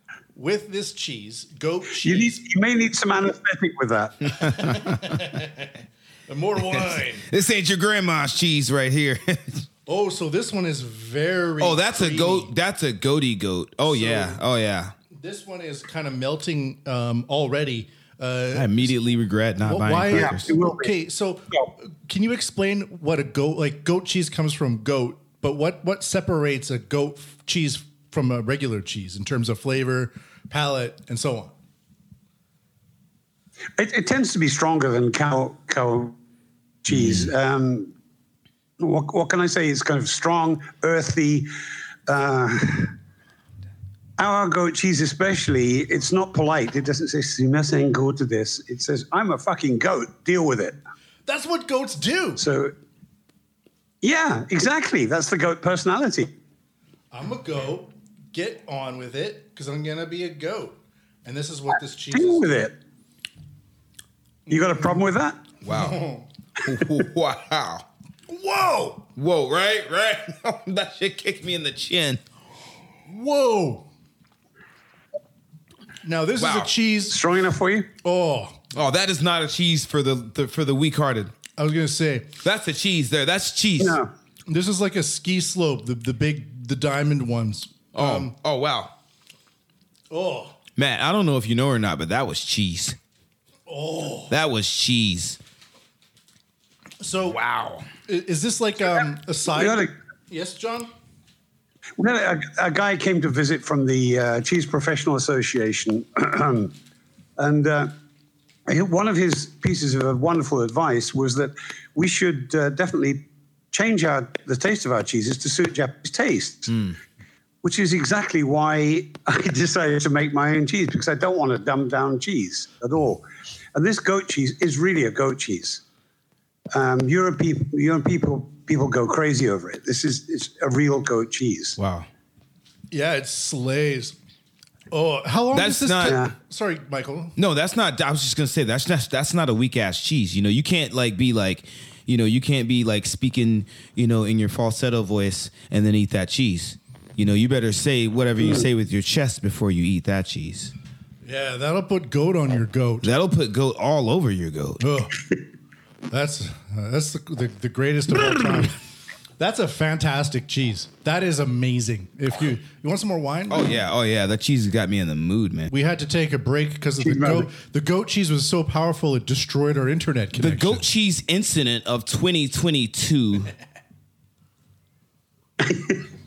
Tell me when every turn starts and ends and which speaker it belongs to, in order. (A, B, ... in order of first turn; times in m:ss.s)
0:00.4-0:02.4 A
0:02.0-0:04.5 B
0:04.4-0:05.2 C
0:04.5-0:05.7 A
0:06.3-0:07.3 A
0:06.8-0:09.7 C
0:09.9-0:12.5 A
0:11.6-0:14.9 C
0:13.8-0:14.4 A
0:15.2-0:18.9 A
0:18.5-0:20.5 C
0:19.6-0:31.5 A
0:20.1-0:20.9 B
0:33.8-0:36.1 B
0:36.8-0:37.9 B
0:36.9-0:37.3 C
0:38.8-0:41.5 B
0:42.1-0:42.9 B
0:44.2-0:50.8 B
0:51.3-0:52.4 A
0:52.4-0:52.7 B
0:54.0-0:56.3 B
0:57.1-1:02.5 A
1:02.1-1:02.7 B
1:04.5-1:05.0 A
1:04.5-1:05.4 B
1:05.6-1:06.0 C
1:05.7-1:06.3 A
1:06.6-1:07.9 C
1:08.3-1:09.1 A
1:09.2-1:12.2 C
1:13.1-1:13.9 A
1:16.0-1:17.2 A
1:16.4-1:16.7 C
1:17.1-1:17.9 B
1:18.0-1:18.6 A
1:18.7-1:21.4 C
1:21.6-1:22.3 A
1:22.4-1:24.0 C
1:23.8-1:24.1 B
1:24.5-1:28.3 A
1:27.9-1:28.9 C
1:30.1-1:30.6 A
1:30.8-1:33.0 C
1:33.7-1:34.4 A
1:34.3-1:35.4 C
1:37.0-1:37.4 A
1:37.3-1:37.9 C
1:38.1-1:40.9 A
1:39.5-1:39.9 B
1:42.0-1:46.7 B
1:47.4-1:47.9 B
1:48.7-1:53.2 B
1:53.7-1:56.9 B
1:57.6-2:05.8 B
2:06.7-2:11.8 B
2:11.8-2:12.1 C
2:12.9-2:14.2 A
2:14.9-2:17.4 A
2:15.5-2:16.2 C
2:16.0-2:16.3 B
2:17.4-2:30.7 C
2:31.2-2:33.1 A
2:33.0-2:34.8 C
2:34.8-2:35.2 A
2:36.1-2:38.8 A
2:39.4-2:43.8 A
2:43.5-2:45.7 C
2:45.7-2:50.9 A
2:47.0-2:47.5 B
2:50.4-2:53.5 C
2:55.6-2:56.0 B